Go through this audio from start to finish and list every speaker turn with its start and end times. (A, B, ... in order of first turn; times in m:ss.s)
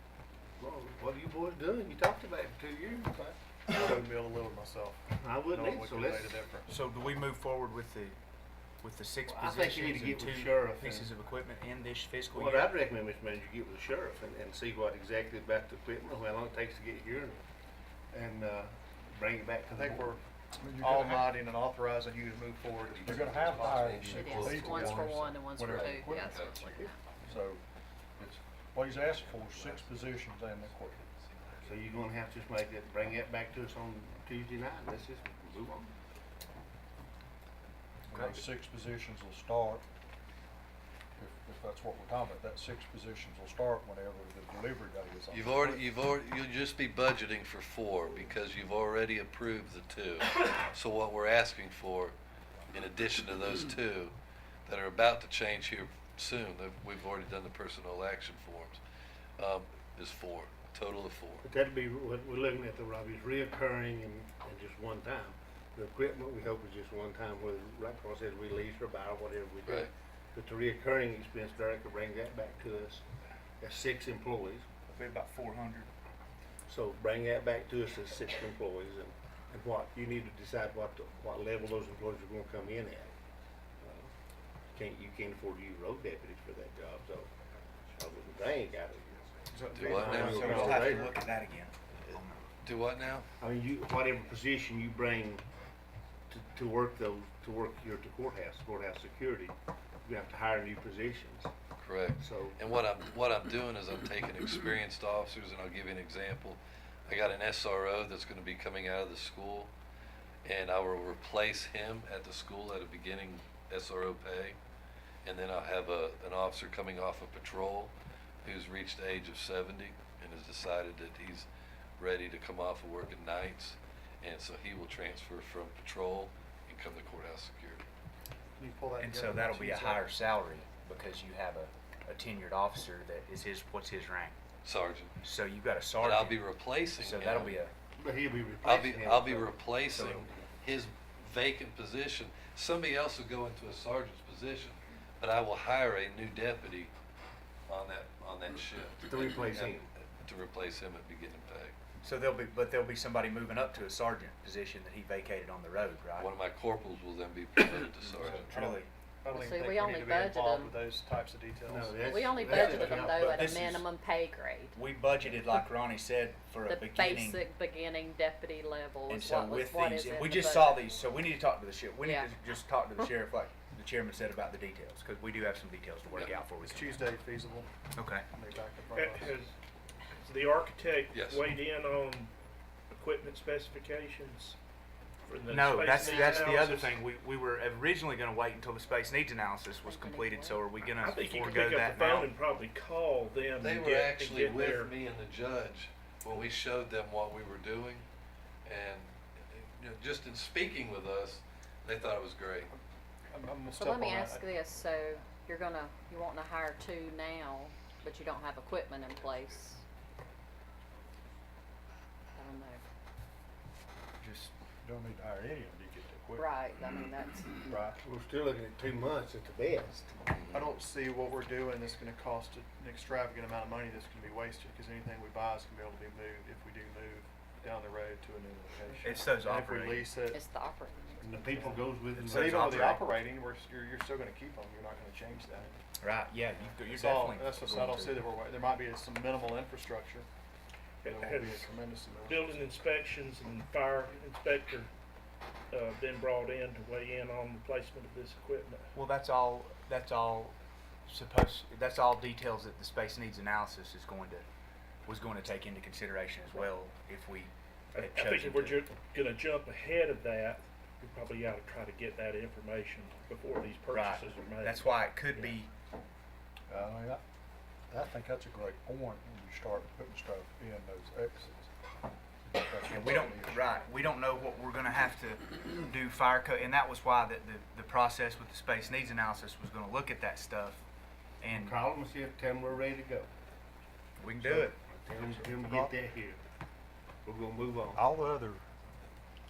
0:00.6-0:04.0 A
0:03.7-0:06.7 B
0:05.2-0:06.3 A
0:06.7-0:08.2 C
0:08.8-0:12.7 C
0:09.3-0:11.1 A
0:12.3-0:17.4 A
0:18.1-0:20.1 A
0:19.7-0:20.2 B
0:20.6-0:21.4 D
0:20.8-0:24.0 B
0:22.8-0:25.0 E
0:23.0-0:27.6 D
0:24.0-0:27.0 F
0:25.6-0:26.9 E
0:28.2-0:31.0 D
0:29.0-0:31.6 E
0:31.6-0:35.9 A
0:38.1-0:39.8 D
0:38.1-0:38.4 C
0:41.2-0:45.9 D
0:45.3-0:52.1 E
0:52.7-0:54.1 E
0:54.7-0:58.8 E
0:59.4-1:01.4 E
1:01.4-1:13.0 A
1:09.6-1:09.9 E
1:13.6-1:14.6 A
1:14.9-1:15.9 C
1:16.7-1:23.1 A
1:23.8-1:24.1 A
1:24.7-1:27.3 A
1:27.9-1:29.2 A
1:29.5-1:32.5 C
1:29.7-1:30.9 E
1:29.8-1:31.1 A
1:30.5-1:30.8 B
1:32.6-1:33.3 E
1:33.4-1:35.4 A
1:36.3-1:41.5 A
1:41.8-1:49.7 E
1:42.2-1:42.6 A
1:50.4-1:54.6 E
1:55.2-1:57.9 E
1:58.4-2:07.8 E
2:08.6-2:10.2 B
2:09.0-2:14.4 C
2:14.6-2:15.1 E
2:15.2-2:16.4 C
2:16.0-2:17.6 E
2:16.9-2:17.7 C
2:18.0-2:20.2 A
2:18.6-2:26.9 E
2:27.7-2:31.7 E
2:29.0-2:29.9 A
2:32.0-2:36.3 C
2:36.2-2:38.5 E
2:38.3-2:42.0 B
2:38.4-2:38.9 C
2:39.3-2:40.7 F
2:41.7-2:43.7 A
2:42.0-2:44.7 F
2:42.5-2:43.8 C
2:44.7-2:47.4 C
2:46.7-2:50.9 F
2:49.1-2:57.0 C
2:52.0-2:52.3 F
2:56.1-2:57.7 B
2:58.0-2:58.2 C
2:58.3-2:59.3 B
2:58.9-2:59.5 G
3:00.2-3:02.3 G
3:01.1-3:01.5 E
3:02.9-3:04.6 G
3:05.2-3:07.0 G
3:05.5-3:12.3 C
3:09.8-3:10.6 F
3:11.0-3:14.9 G
3:13.6-3:18.0 E
3:18.6-3:22.7 E
3:23.3-3:24.9 B
3:23.7-3:29.8 F
3:32.4-3:32.8 F
3:34.2-3:34.5 C
3:34.4-3:36.4 D
3:36.3-3:37.7 F
3:37.7-3:38.0 D
3:38.0-3:40.1 A
3:40.3-3:40.7 E
3:40.5-3:50.4 B
3:49.0-3:50.1 C
3:50.3-3:51.7 F
3:51.2-3:53.1 A
3:51.5-3:55.8 B
3:52.2-3:53.1 C
3:56.0-3:58.2 C
3:56.9-4:00.3 B
4:01.0-4:02.7 B
4:01.0-4:04.9 G
4:05.7-4:08.8 G
4:08.9-4:10.5 C
4:11.1-4:14.4 C
4:15.0-4:18.8 C
4:17.9-4:25.6 G
4:23.9-4:25.7 C
4:26.7-4:27.2 D
4:27.9-4:31.7 D
4:32.5-4:33.6 D
4:32.8-4:40.8 C
4:41.4-4:41.8 C
4:41.5-4:43.3 A
4:44.2-4:44.8 C
4:44.4-4:46.4 A
4:45.6-4:45.9 D
4:47.2-4:48.0 A
4:47.9-4:48.6 D